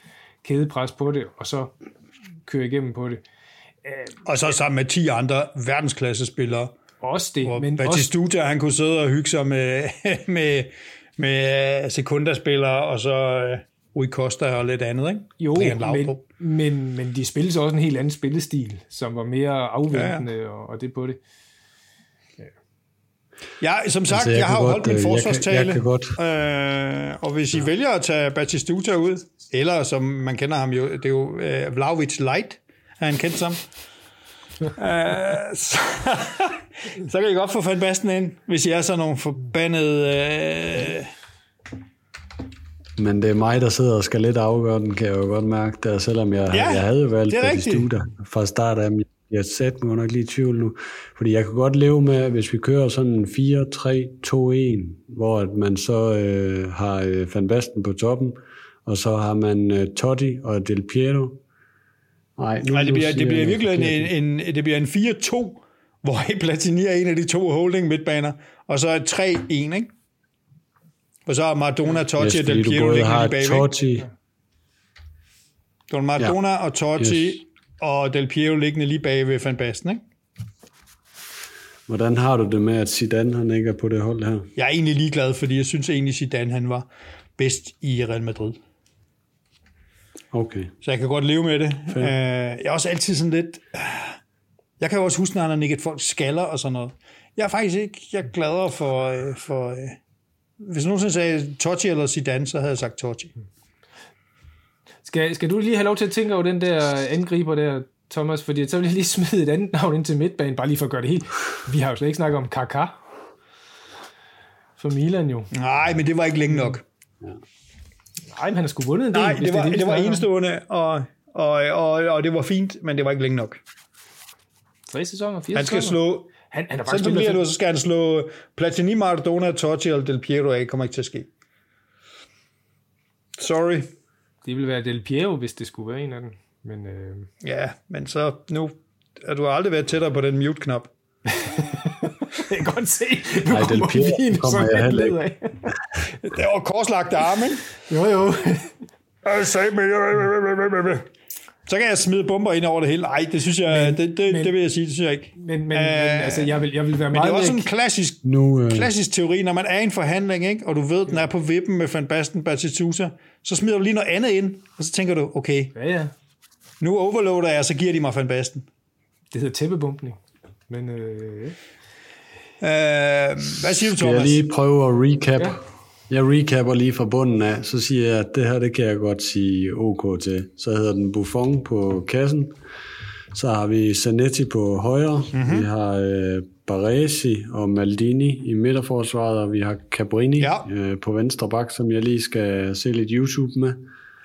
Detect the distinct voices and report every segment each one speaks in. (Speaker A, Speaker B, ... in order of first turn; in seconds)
Speaker A: 0.4-1.7, 2.5-3.2, 3.8-4.1, 7.0-8.1, 15.4-21.2, 105.0-113.0, 114.8-115.5, 118.3-120.2, 124.9-127.4, 134.4-137.3, 141.3-145.6, 147.8-148.7, 153.7-154.5, 155.3-157.7, 165.7-166.1, 169.3-171.6
Speaker B: 4.2-6.7, 7.4-16.2, 19.9-20.2, 23.6-33.6, 34.7-41.1, 46.5-47.9, 62.7-69.9, 71.2-73.7, 75.9-80.0, 84.5-88.6, 90.8-94.2, 94.8-100.0, 100.6-103.3, 115.5-116.8, 119.1-123.6, 125.5-126.3, 126.9-131.3, 133.4-133.9, 137.4-140.9, 146.2-147.7, 149.2-151.1, 151.7-156.6, 157.1-165.7, 166.8-168.7, 172.6-174.4, 185.3-185.7, 190.4-190.7
Speaker C: 24.1-26.2, 43.0-61.4, 62.4-64.1, 72.2-74.1, 77.0-77.4, 81.9-84.5, 90.3-90.7, 143.5-145.7, 158.2-158.9, 173.6-182.6, 183.3-193.8